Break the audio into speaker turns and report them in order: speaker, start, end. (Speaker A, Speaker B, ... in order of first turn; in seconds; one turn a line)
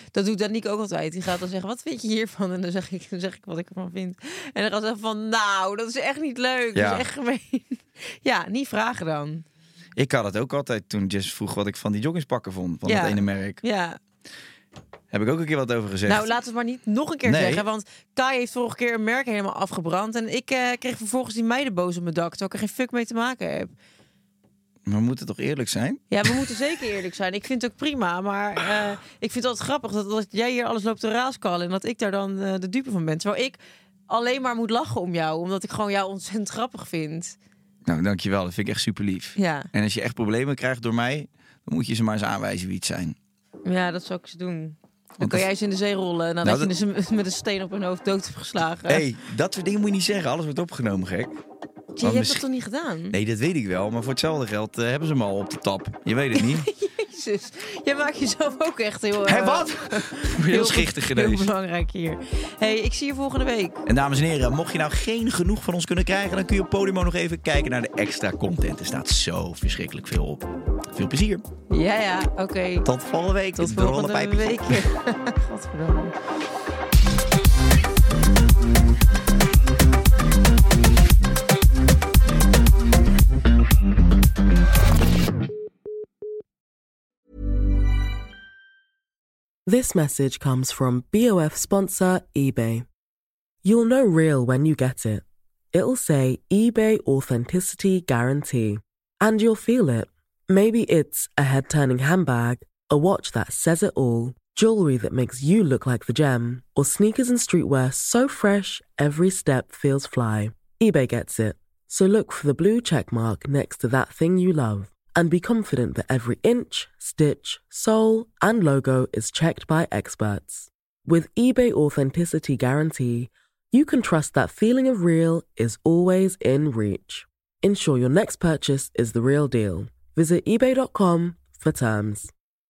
Speaker A: 0.1-9.4
Speaker B: 6.7-7.0
Speaker B: 9.9-13.6
Speaker A: 12.8-14.0
Speaker B: 15.1-16.3
Speaker A: 16.1-23.7
Speaker B: 17.2-17.6
Speaker B: 24.9-26.4
Speaker A: 26.1-33.6
Speaker A: 34.1-37.4
Speaker B: 37.9-43.1
Speaker A: 39.4-39.7
Speaker A: 43.6-49.0
Speaker B: 45.2-45.4
Speaker B: 46.4-46.7
Speaker B: 48.9-51.4
Speaker A: 52.0-53.2
Speaker B: 52.0-52.4
Speaker B: 53.1-56.7
Speaker A: 56.3-63.8
Speaker B: 59.2-61.5
Speaker B: 63.9-71.4
Speaker A: 71.7-72.9
Speaker B: 72.8-74.9
Speaker A: 73.5-76.1
Speaker C: 89.7-92.8
Speaker C: 93.6-132.3